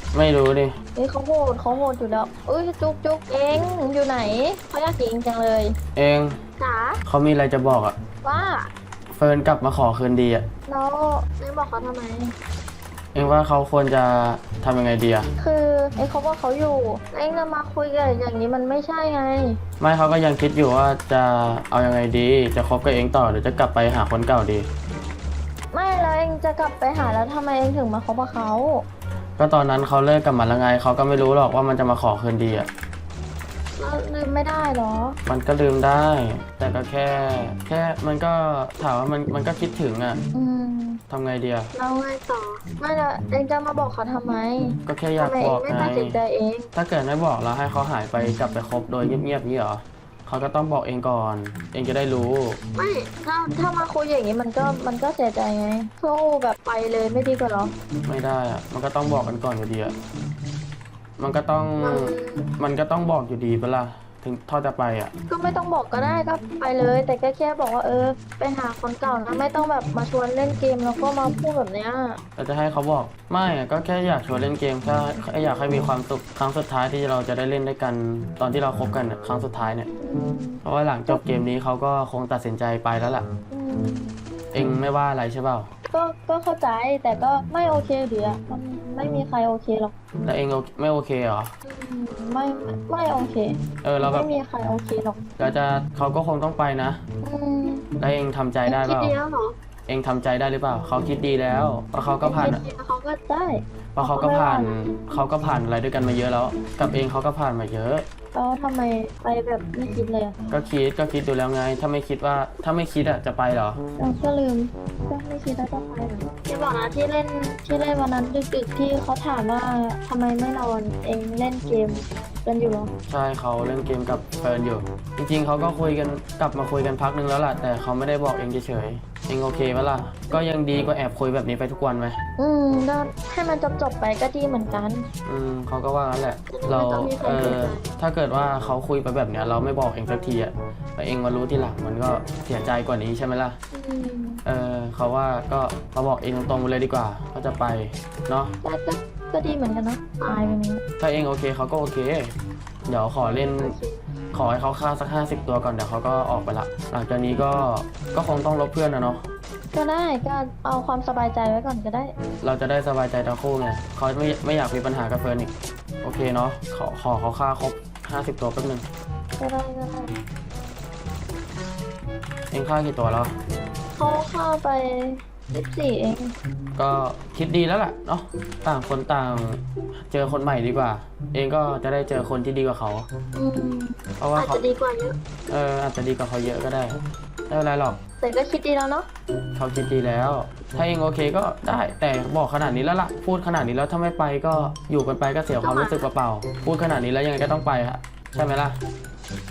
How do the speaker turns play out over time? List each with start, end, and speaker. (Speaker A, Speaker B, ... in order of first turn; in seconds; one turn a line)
Speaker A: 0.1-0.8
Speaker B: 0.9-5.8
Speaker A: 5.9-6.4
Speaker B: 6.6-7.0
Speaker A: 7.0-8.0
Speaker B: 8.2-8.7
Speaker A: 9.1-10.5
Speaker B: 10.7-12.3
Speaker A: 13.1-15.3
Speaker B: 15.4-19.6
Speaker A: 19.8-24.7
Speaker B: 25.7-28.8
Speaker A: 29.4-32.7
Speaker B: 33.8-35.2
Speaker A: 35.2-40.2
Speaker B: 40.3-41.0
Speaker A: 41.1-41.7
Speaker B: 41.7-46.7
Speaker A: 44.8-46.2
Speaker A: 46.7-52.6
Speaker B: 52.7-57.7
Speaker A: 58.0-59.9
Speaker A: 61.2-65.1
Speaker B: 61.8-62.5
Speaker B: 65.3-72.2
Speaker A: 72.4-79.9
Speaker B: 80.0-81.2
Speaker A: 80.6-83.2
Speaker B: 83.5-84.1
Speaker A: 84.5-85.7
Speaker B: 85.9-89.9
Speaker A: 90.2-91.5
Speaker B: 91.6-95.2
Speaker A: 93.8-94.3
Speaker A: 95.4-97.0
Speaker B: 97.2-97.9
Speaker A: 98.0-99.2
Speaker B: 98.7-99.5
Speaker A: 99.9-102.6
Speaker B: 102.2-104.8
Speaker A: 104.0-108.0
Speaker B: 108.3-110.3
Speaker A: 110.5-113.8
Speaker B: 114.0-122.9
Speaker A: 123.1-132.2
Speaker B: 132.4-135.1
Speaker A: 135.2-143.6
Speaker B: 136.5-137.9
Speaker B: 143.7-144.4
Speaker A: 144.4-148.5
Speaker B: 148.6-150.8
Speaker A: 151.0-152.3
Speaker A: 152.9-153.8
Speaker B: 153.2-154.0
Speaker A: 154.3-159.2
Speaker B: 159.7-162.1
Speaker A: 162.4-168.9
Speaker B: 169.4-170.2
Speaker A: 172.5-173.3
Speaker B: 173.9-176.3
Speaker A: 176.8-183.1
Speaker B: 183.3-185.2
Speaker A: 184.2-184.6
Speaker A: 185.5-188.0
Speaker B: 188.2-189.1
Speaker A: 189.5-198.8
Speaker B: 195.6-196.1